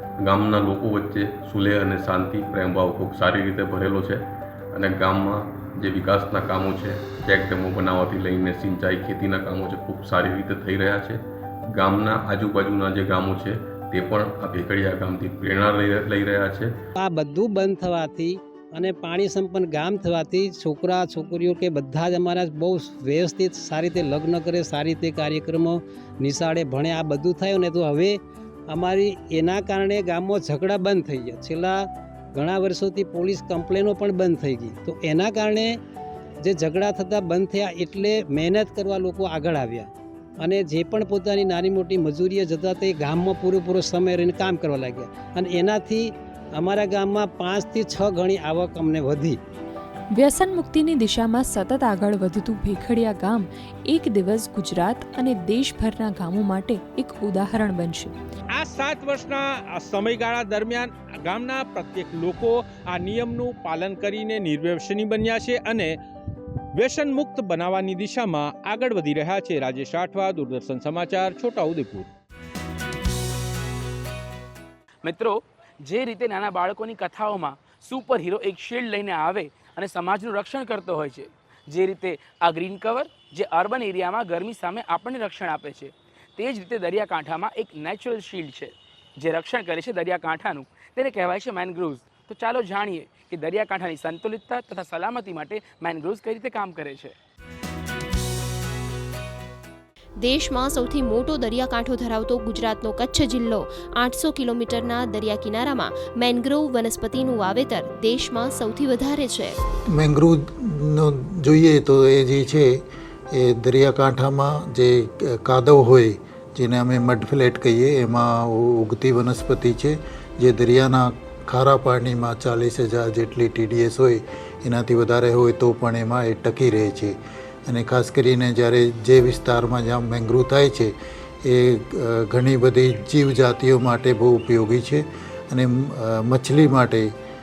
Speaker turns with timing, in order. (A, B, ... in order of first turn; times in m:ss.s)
0:00.2-0:11.2 A
0:11.7-0:16.7 A
0:17.0-0:28.2 B
0:28.7-0:35.8 B
0:36.4-0:39.9 B
0:40.4-0:49.4 B
0:50.1-0:58.1 C
0:58.5-1:06.0 D
1:06.7-1:12.1 D
1:15.0-1:37.1 E
1:40.2-1:49.6 F
1:49.9-1:52.7 G
1:53.3-2:17.1 G